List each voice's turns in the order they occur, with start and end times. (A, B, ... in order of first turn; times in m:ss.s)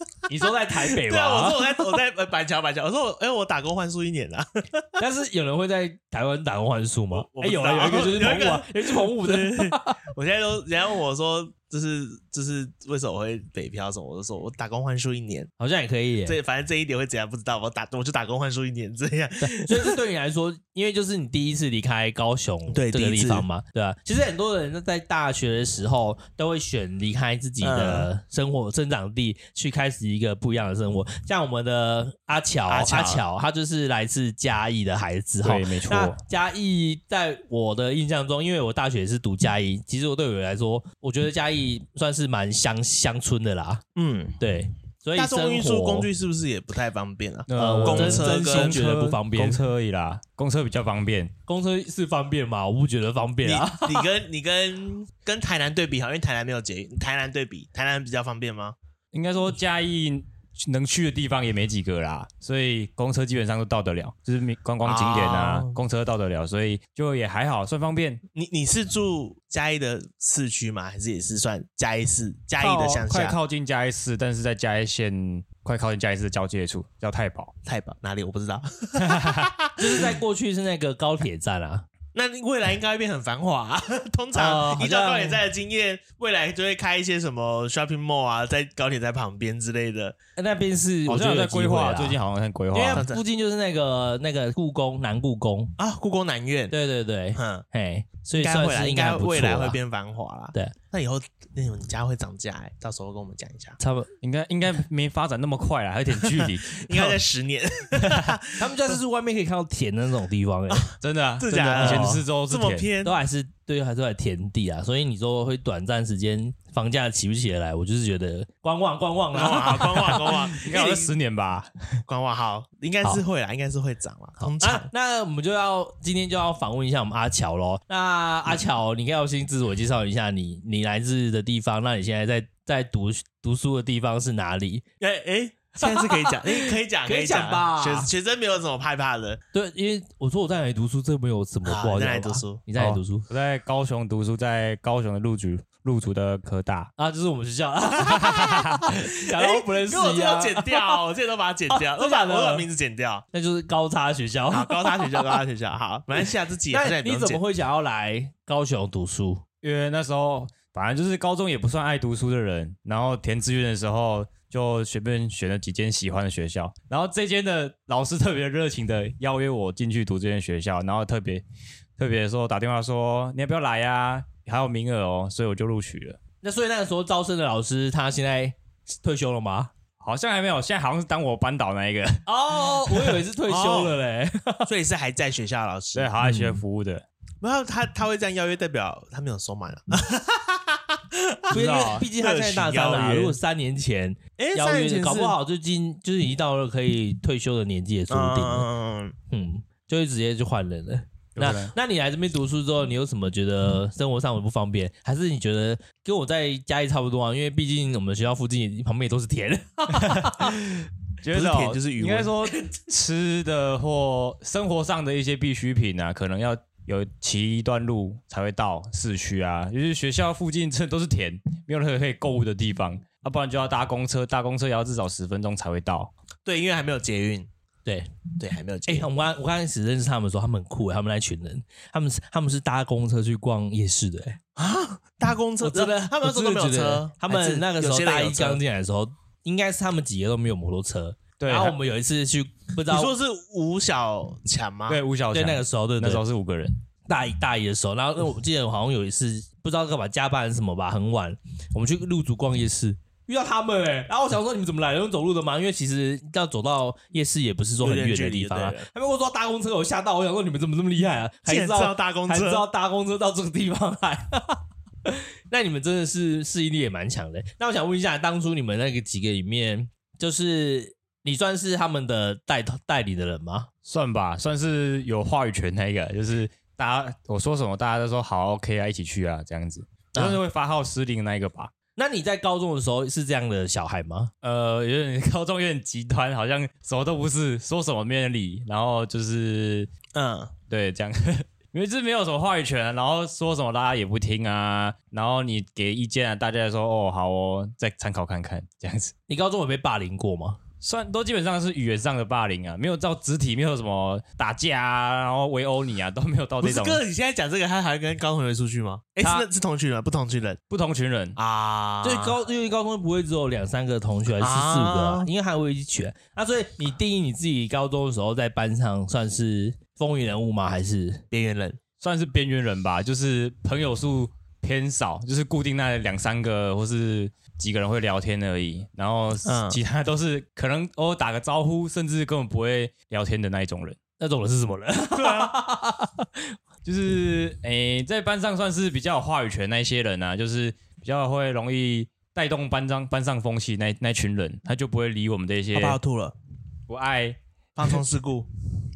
0:00.3-0:01.8 A
0:00.8-0:04.9 B
0:05.0-0:10.0 A
0:07.1-0:15.5 B
0:15.6-0:16.4 A
0:16.2-0:20.0 B
0:19.4-0:43.8 A
0:22.7-0:23.5 B
0:27.6-0:28.1 B
0:32.7-0:33.2 B
0:35.4-0:36.2 C
0:44.0-0:44.4 B
0:44.4-0:46.1 A
0:45.2-0:48.9 B
0:47.5-0:51.3 C
0:47.6-0:49.6 A
0:51.5-0:54.1 A
0:53.4-0:58.8 B
0:59.1-1:08.2 C
1:04.8-1:05.8 B
1:08.4-1:13.4 B
1:12.6-1:17.5 C
1:17.6-1:20.1 B
1:19.0-1:19.5 C
1:19.8-1:21.9 A
1:22.1-1:30.2 B
1:24.4-1:25.4 A
1:30.4-1:32.2 A
1:31.1-1:33.0 C
1:32.7-1:35.7 A
1:32.9-1:33.2 B
1:35.8-1:36.8 B
1:36.7-1:39.8 A
1:37.4-1:37.6 B
1:38.3-1:43.8 B
1:43.8-1:44.1 A
1:44.2-1:47.2 C
1:46.2-1:49.0 B
1:48.0-1:48.3 C
1:48.6-1:50.9 A
1:51.0-1:52.9 C
1:51.4-1:53.2 B
1:51.5-1:52.2 A
1:53.0-2:00.3 A
1:59.3-2:01.1 B
2:00.0-2:02.0 C
2:02.1-2:04.9 B
2:04.4-2:14.8 A
2:15.0-2:19.4 B
2:15.8-2:18.1 A
2:19.5-2:23.3 A
2:21.6-2:22.6 B
2:22.8-2:26.9 C
2:27.0-2:31.0 A
2:28.1-2:28.8 C
2:28.2-2:28.6 B
2:29.3-2:33.2 B
2:31.7-2:32.7 A
2:33.3-2:35.4 A
2:34.5-2:37.4 B
2:36.7-2:39.4 A
2:39.6-2:51.4 C
2:52.0-2:56.2 C
2:56.4-2:59.7 A
3:00.0-3:03.2 C
3:02.3-3:04.7 A
3:03.5-3:04.0 B
3:04.7-3:06.1 B
3:06.0-3:07.0 C
3:06.2-3:06.6 A
3:07.4-3:13.4 B
3:11.5-3:18.7 A
3:11.6-3:12.0 C
3:14.4-3:15.4 B
3:18.1-3:19.2 B
3:19.3-3:30.6 A
3:21.4-3:21.7 C
3:30.0-3:46.1 C
3:31.3-3:32.3 B
3:46.5-3:47.5 B
3:48.4-3:49.1 B
3:48.9-3:54.4 A
3:54.6-3:58.6 B
3:55.6-4:03.1 A
4:01.4-4:01.8 C
4:02.9-4:05.0 B
4:04.9-4:06.8 C
4:05.3-4:06.2 A
4:07.1-4:33.7 A
4:17.8-4:18.9 B
4:21.5-4:22.7 B
4:33.8-4:41.7 C
4:40.2-4:40.4 A
4:42.0-4:44.3 A
4:44.4-4:49.9 C
4:50.1-4:50.5 B
4:50.7-4:59.1 C
4:59.3-5:00.6 A
5:00.8-5:07.0 C
5:06.6-5:10.6 B
5:10.7-5:11.4 C
5:11.4-5:12.4 B
5:12.0-5:21.2 A
5:14.4-5:15.3 B
5:21.3-5:21.8 B
5:22.0-5:34.0 C
5:29.4-5:29.8 B
5:34.2-5:36.5 A
5:35.1-5:35.6 B
5:36.8-5:46.0 C
5:45.7-5:46.4 B
5:46.9-5:47.4 C
5:47.8-5:48.5 B